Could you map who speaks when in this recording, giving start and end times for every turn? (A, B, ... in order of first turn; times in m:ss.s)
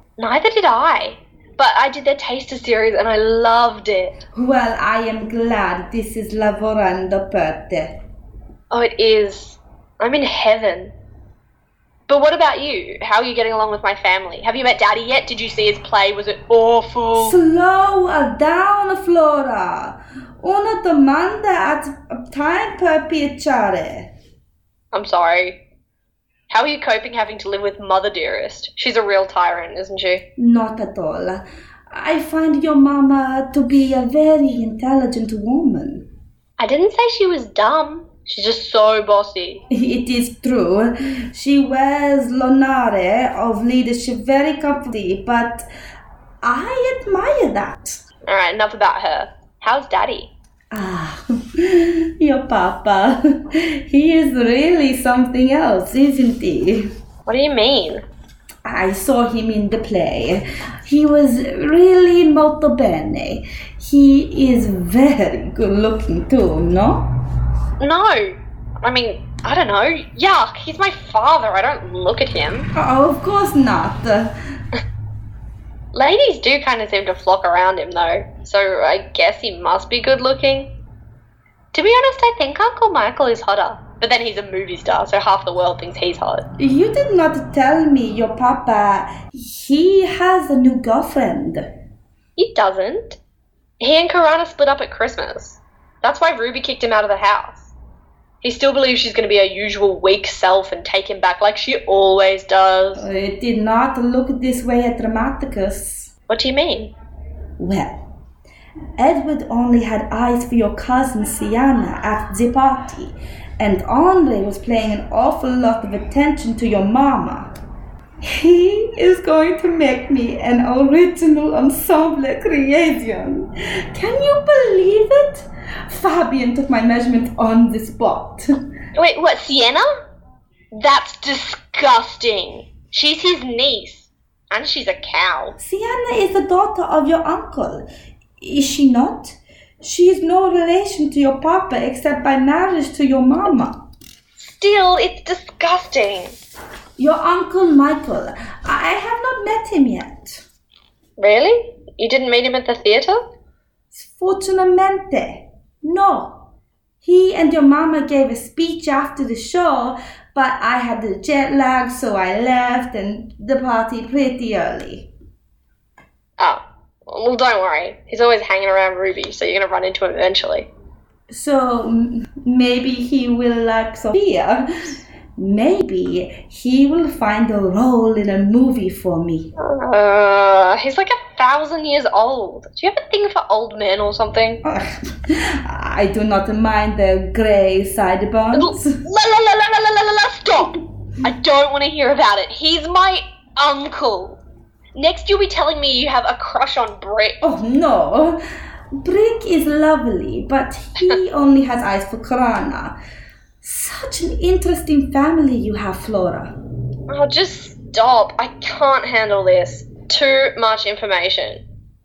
0:00.2-0:04.1 A
0:04.3-0:08.0 B
0:08.7-0:10.9 A
0:12.1-0:17.4 A
0:17.2-0:24.1 B
0:24.9-0:25.6 A
0:26.5-0:30.2 A
0:30.4-0:36.1 B
0:36.6-0:39.6 A
0:39.7-0:45.7 B
0:46.4-0:48.0 B
0:48.3-0:50.3 A
0:50.7-0:56.9 B
0:57.3-0:58.0 A
0:58.6-1:07.1 B
1:07.8-1:12.7 A
1:12.8-1:14.4 B
1:15.9-1:20.7 A
1:21.7-1:26.4 A
1:26.6-1:31.7 B
1:32.4-1:33.2 A
1:33.8-1:37.7 A
1:38.4-1:43.0 A
1:43.0-1:46.1 B
1:46.3-1:46.9 A
1:47.6-1:48.1 B
1:49.0-1:57.5 B
1:58.2-2:08.5 B
2:09.0-2:09.9 A
2:10.7-2:15.6 A
2:15.6-2:17.9 B
2:18.4-2:23.8 B
2:24.4-2:26.3 A
2:27.0-2:30.4 B
2:31.2-2:33.2 A
2:33.9-2:36.5 B
2:37.0-2:45.1 B
2:46.4-2:50.7 A
2:51.3-2:59.5 B
2:59.6-3:04.6 A
3:04.6-3:09.0 B
3:08.5-3:14.4 A
3:15.0-3:17.4 A
3:17.4-3:18.4 B
3:19.0-3:23.0 B
3:23.6-3:26.5 B
3:27.1-3:31.6 A